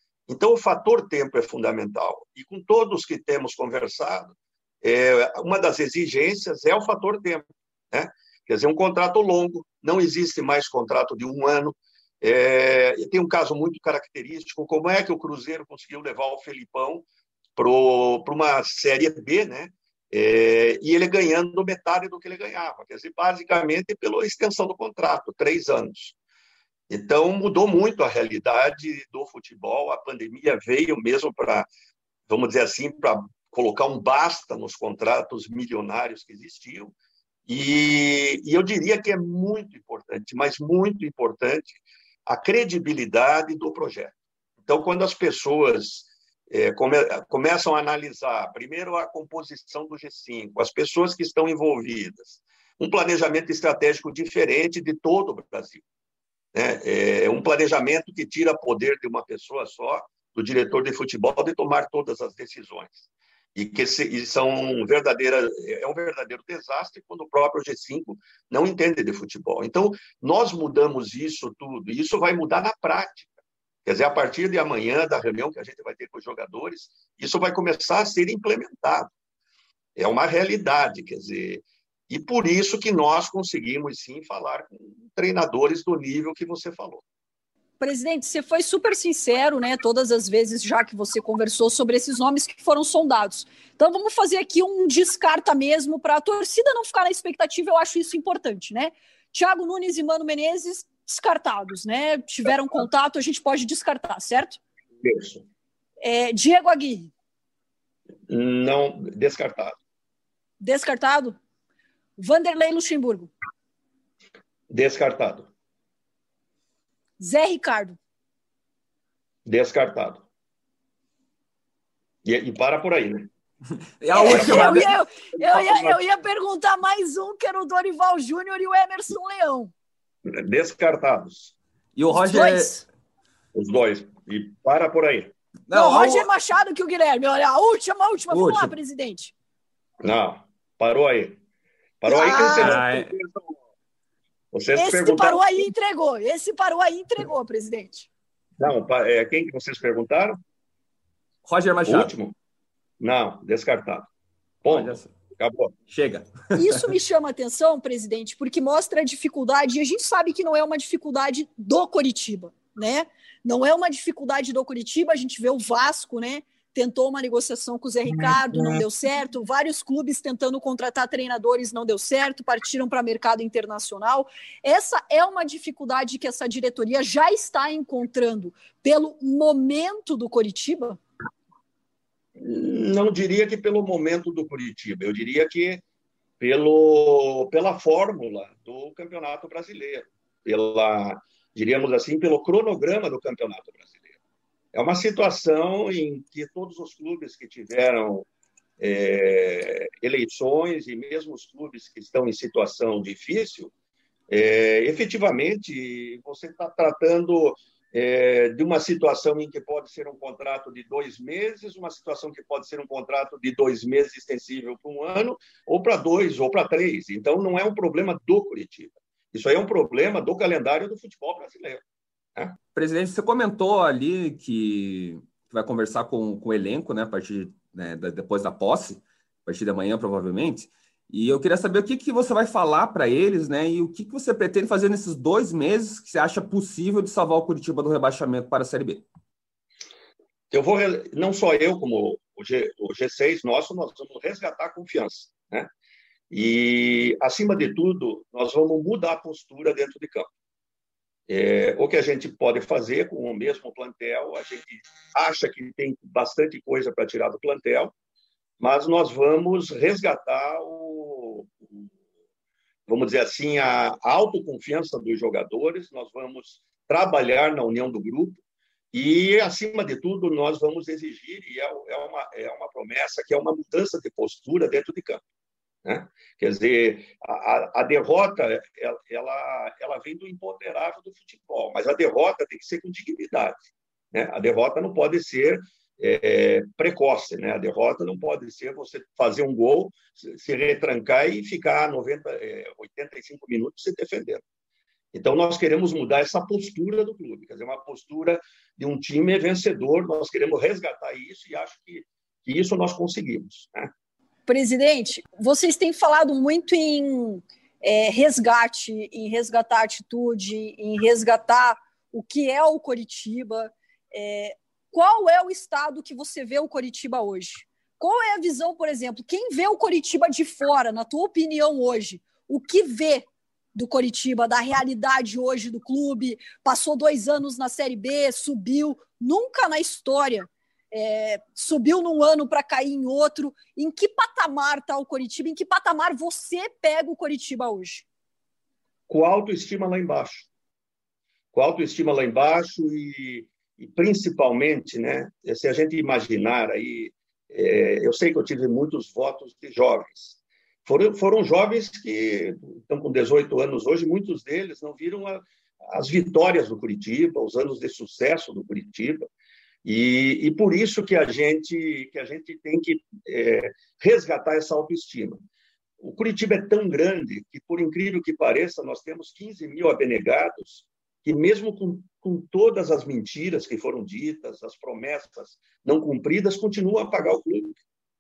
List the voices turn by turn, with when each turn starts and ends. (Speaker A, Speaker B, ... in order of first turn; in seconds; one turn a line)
Speaker A: 0.3-26.2
Speaker A: 26.9-31.7
Speaker A: 32.3-36.9
Speaker A: 37.5-44.1
Speaker A: 44.6-55.8
Speaker A: 56.5-79.1
Speaker A: 80.0-87.0
Speaker B: 87.8-104.6
Speaker A: 105.0-105.4
Speaker B: 106.0-107.1
Speaker A: 108.3-109.8
Speaker B: 110.6-111.4
Speaker B: 112.2-113.3
Speaker A: 114.7-115.5
Speaker B: 117.2-118.0
Speaker A: 119.5-120.2
Speaker A: 122.2-123.3
Speaker C: 124.0-124.9
Speaker B: 124.1-129.7
Speaker A: 124.3-124.9
Speaker A: 125.4-126.0
Speaker A: 130.3-131.5
Speaker C: 132.0-132.8
Speaker B: 132.1-132.8
Speaker A: 133.5-135.3
Speaker C: 135.7-136.3
Speaker B: 135.7-139.3
Speaker C: 138.3-138.8
Speaker A: 140.0-141.4
Speaker A: 142.0-143.4
Speaker B: 142.1-142.8
Speaker C: 142.4-143.1
Speaker A: 144.5-145.7
Speaker B: 144.8-148.1
Speaker A: 148.6-150.3
Speaker C: 151.4-152.1
Speaker A: 151.9-152.3
Speaker A: 153.0-154.1
Speaker C: 154.6-155.1
Speaker A: 154.7-155.7
Speaker C: 155.9-156.9
Speaker B: 156.5-181.0
Speaker A: 182.4-185.8
Speaker A: 186.4-194.2
Speaker A: 194.7-198.3
Speaker A: 198.8-203.7
Speaker A: 204.3-221.8
Speaker C: 222.8-239.1
Speaker A: 240.5-245.7
Speaker A: 246.3-250.3
Speaker A: 251.3-257.9
Speaker A: 258.6-261.9
Speaker A: 262.9-268.4
Speaker A: 268.9-275.2
Speaker A: 275.9-294.4
Speaker A: 295.1-303.9
Speaker B: 304.5-338.1
Speaker A: 339.1-340.5
Speaker A: 341.5-359.3
Speaker A: 359.9-365.4
Speaker A: 366.0-377.8